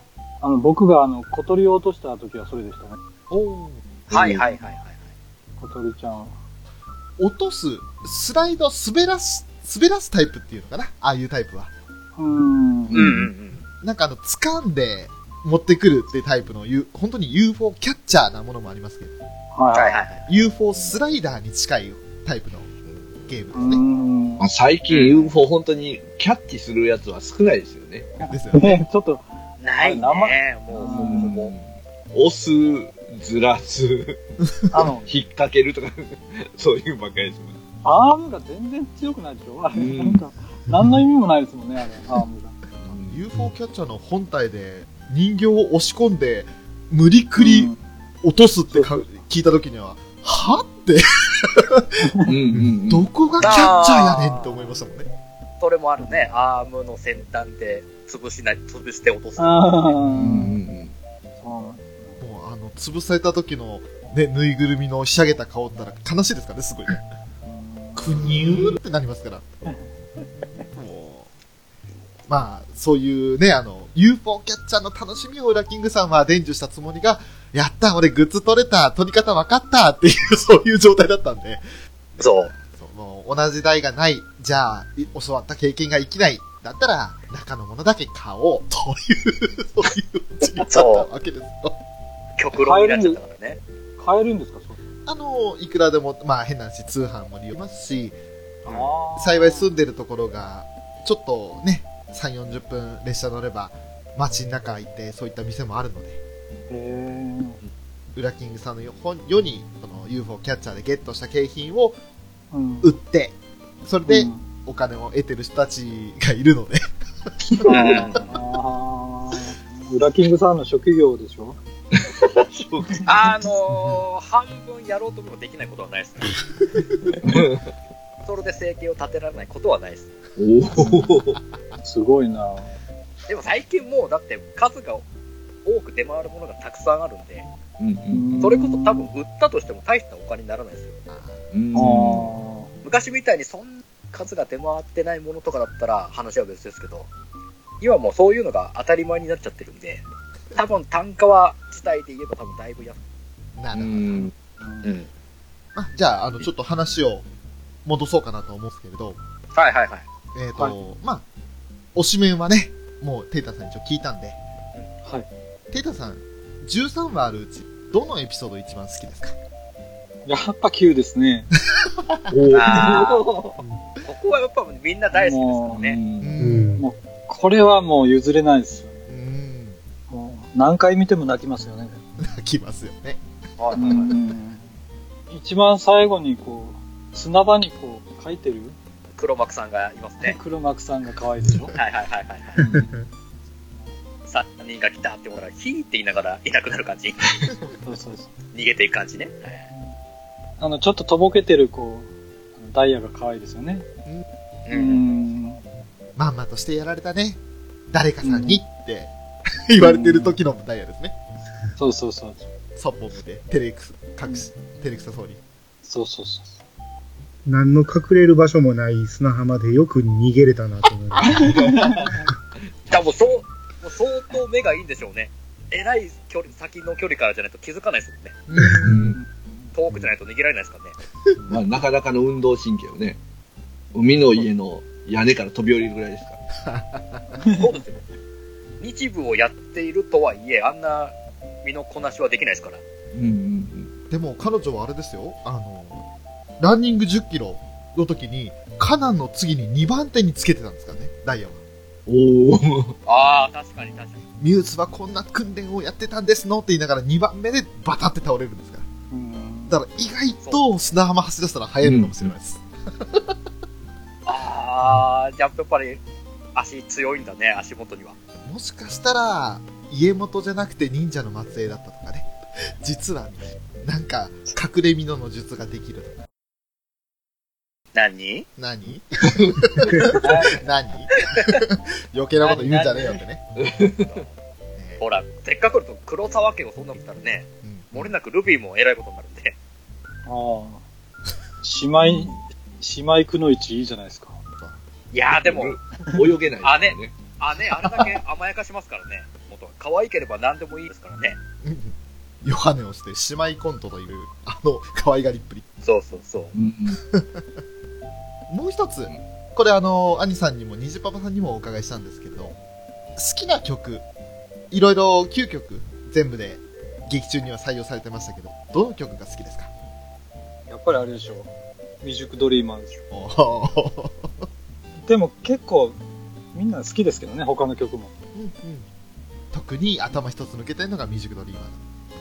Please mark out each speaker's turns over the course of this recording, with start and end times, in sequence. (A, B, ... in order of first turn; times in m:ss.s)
0:00.4-0:03.0 A
0:03.3-0:04.4 B
0:04.1-0:05.0 C
0:05.6-0:06.4 A
0:07.2-0:11.7 B
0:12.2-0:13.0 A
0:12.9-0:13.3 D
0:13.0-0:13.6 C
0:13.8-0:19.2 B
0:19.5-0:20.0 A
0:19.7-0:20.2 C
0:20.3-0:22.7 B
0:23.3-0:23.8 B
0:23.5-0:24.4 A
0:24.4-0:28.1 D
0:24.9-0:25.3 C
0:28.2-0:29.2 A
0:28.3-0:28.8 B
0:29.6-0:31.5 C
0:29.8-0:31.3 A
0:30.9-0:34.2 D
0:34.7-0:35.1 A
0:35.0-0:37.6 D
0:37.8-0:42.6 A
0:39.8-0:40.2 D
0:42.8-0:43.2 D
0:42.9-0:51.9 B
0:47.4-0:47.8 A
0:48.7-0:49.1 A
0:52.3-0:53.1 D
0:52.5-0:55.1 B
0:53.4-0:54.6 C
0:55.6-0:59.7 C
0:59.4-1:00.6 A
1:00.2-1:01.0 D
1:01.4-1:02.2 A
1:02.2-1:07.0 B
1:07.5-1:08.3 A
1:08.0-1:09.5 B
1:10.7-1:11.3 B
1:12.3-1:21.6 B
1:22.2-1:31.8 B
1:22.2-1:22.5 C
1:30.7-1:31.1 C
1:32.4-1:33.6 C
1:32.5-1:33.2 A
1:34.0-1:34.8 A
1:35.1-1:38.2 B
1:38.7-1:39.7 A
1:39.2-1:46.2 B
1:46.7-1:47.6 A
1:48.2-1:52.0 B
1:52.5-1:53.0 A
1:52.8-1:56.9 B
1:54.1-1:54.4 A
1:57.6-2:01.6 A
1:57.7-1:58.3 C
2:02.6-2:03.0 D
2:03.0-2:06.4 C
2:07.2-2:07.6 D
2:08.2-2:10.1 C
2:10.4-2:11.4 D
2:11.8-2:12.7 A
2:13.3-2:15.0 C
2:15.6-2:17.5 C
2:17.8-2:18.5 D
2:18.1-2:19.1 A
2:18.4-2:21.0 C
2:21.1-2:21.4 B
2:21.5-2:22.3 D
2:21.7-2:22.7 A
2:22.8-2:27.1 C
2:27.8-2:30.0 C
2:30.6-2:33.0 C
2:33.6-2:34.3 B
2:33.7-2:34.3 D
2:34.6-2:34.9 A
2:35.8-2:37.2 B
2:37.8-2:39.2 B
2:39.5-2:40.0 C
2:40.3-2:41.2 B
2:42.0-2:44.4 B
2:45.7-2:49.4 B
2:50.2-2:51.5 A
2:52.3-2:53.6 D
2:52.5-2:53.2 C
2:54.1-2:56.0 C
2:55.1-2:55.9 A
2:55.7-2:56.4 D
2:56.2-2:56.8 B
2:56.4-2:56.9 E
2:56.8-2:59.0 A
2:59.1-2:59.8 B
3:00.1-3:02.0 A
3:02.2-3:03.2 B
3:03.6-3:04.2 C
3:03.8-3:04.7 A
3:05.3-3:08.8 A
3:09.2-3:10.4 C
3:10.2-3:11.7 A
3:11.7-3:12.6 C
3:12.6-3:12.9 D
3:14.3-3:17.5 C
3:17.8-3:18.3 A
3:18.5-3:19.7 C
3:20.6-3:23.9 A
3:24.7-3:25.1 C
3:24.7-3:25.6 A
3:26.2-3:27.4 B
3:27.9-3:29.1 B
3:28.2-3:28.6 A
3:29.7-3:31.2 B
3:29.8-3:30.4 A
3:31.8-3:32.4 A
3:32.8-3:35.4 B
3:35.8-3:36.6 A
3:37.5-3:41.5 E
3:41.2-3:42.1 D
3:41.5-3:42.2 A
3:42.9-3:48.4 C
3:48.5-3:49.2 B
3:48.8-3:49.2 D
3:49.8-3:51.0 C
3:51.5-3:53.2 D
3:53.9-3:56.4 D
3:56.6-3:57.4 B
3:57.4-3:57.7 A
3:57.5-3:58.0 C
3:58.8-4:02.8 C
4:03.1-4:03.9 D
4:04.1-4:06.0 B
4:06.6-4:11.6 B
4:12.1-4:12.9 D
4:13.1-4:14.2 C
4:14.4-4:18.9 B
4:19.1-4:19.8 A
4:19.7-4:23.3 B
4:21.8-4:22.3 D
4:24.3-4:26.0 C
4:26.6-4:28.2 C
4:28.4-4:32.3 B
4:32.8-4:36.2 B
4:38.0-4:38.5 C
4:38.6-4:43.4 B
4:40.2-4:40.6 A
4:41.3-4:41.6 C
4:42.4-4:43.2 C
4:43.6-4:44.2 D
4:44.8-4:45.0 B
4:45.0-4:49.6 C
4:47.6-4:48.1 B
4:50.3-4:50.8 A
4:51.6-4:54.4 A
4:52.0-4:52.4 D
4:55.1-4:55.8 C
4:55.3-4:58.1 D
4:56.6-5:01.4 C
5:01.6-5:05.6 B
5:05.8-5:06.5 C
5:06.6-5:07.0 D
5:07.1-5:07.5 B
5:08.5-5:12.6 B
5:13.2-5:14.0 B
5:14.7-5:19.7 B
5:20.7-5:21.5 A
5:22.0-5:23.0 A
5:23.1-5:24.4 B
5:25.0-5:26.0 A
5:26.5-5:28.1 A
5:28.4-5:28.9 B
5:29.5-5:31.8 B